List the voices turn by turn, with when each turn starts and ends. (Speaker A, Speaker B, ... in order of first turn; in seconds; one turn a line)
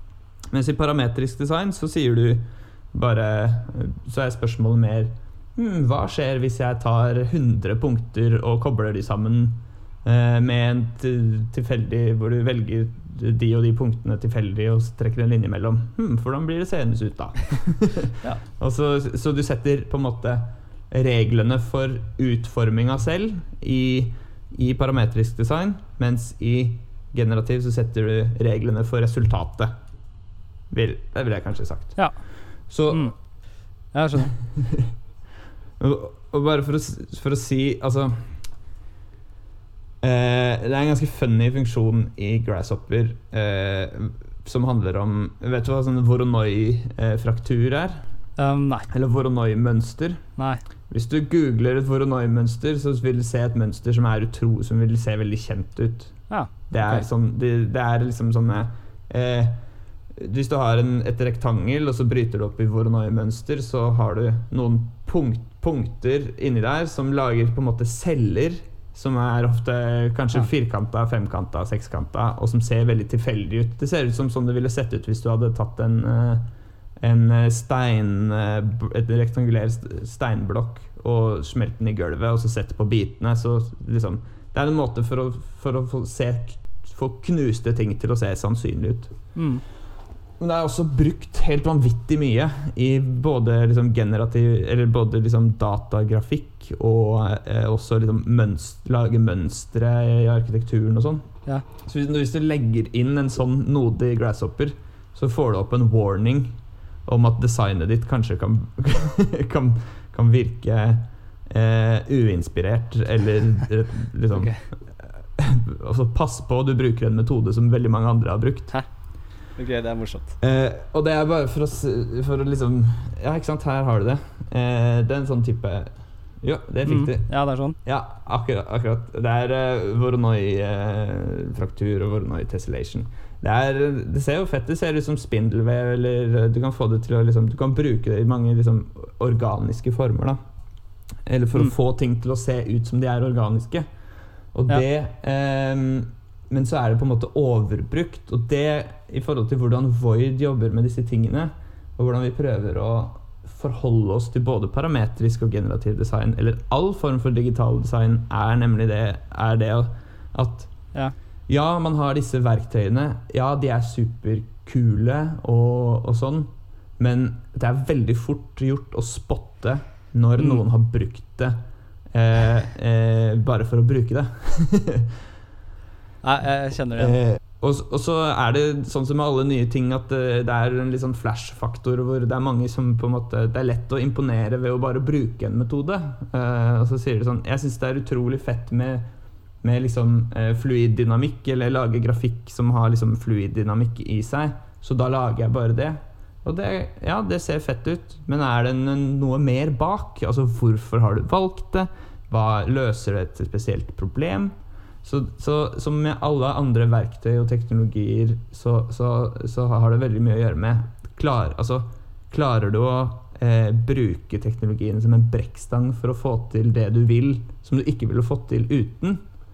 Speaker A: 0.5-29.7
Speaker A: 30.7-32.0
Speaker A: 32.7-33.1
Speaker B: 32.9-33.1
Speaker B: 33.9-34.4
Speaker A: 34.5-34.9
Speaker A: 35.8-38.4
Speaker A: 40.0-48.0
Speaker B: 48.4-48.9
Speaker A: 48.9-50.2
Speaker B: 50.4-50.6
Speaker A: 50.9-59.6
Speaker B: 56.3-57.1
Speaker A: 60.1-89.1
Speaker B: 89.3-89.6
Speaker A: 90.4-101.3
Speaker A: 101.8-118.8
Speaker B: 114.3-114.7
Speaker B: 119.5-120.4
Speaker A: 120.4-127.3
Speaker B: 126.8-127.8
Speaker A: 127.8-140.4
Speaker A: 141.2-143.8
Speaker A: 144.5-160.7
Speaker A: 161.5-171.6
Speaker A: 172.1-175.2
Speaker B: 176.2-177.2
Speaker A: 177.0-189.0
Speaker A: 189.6-204.5
Speaker A: 205.0-219.2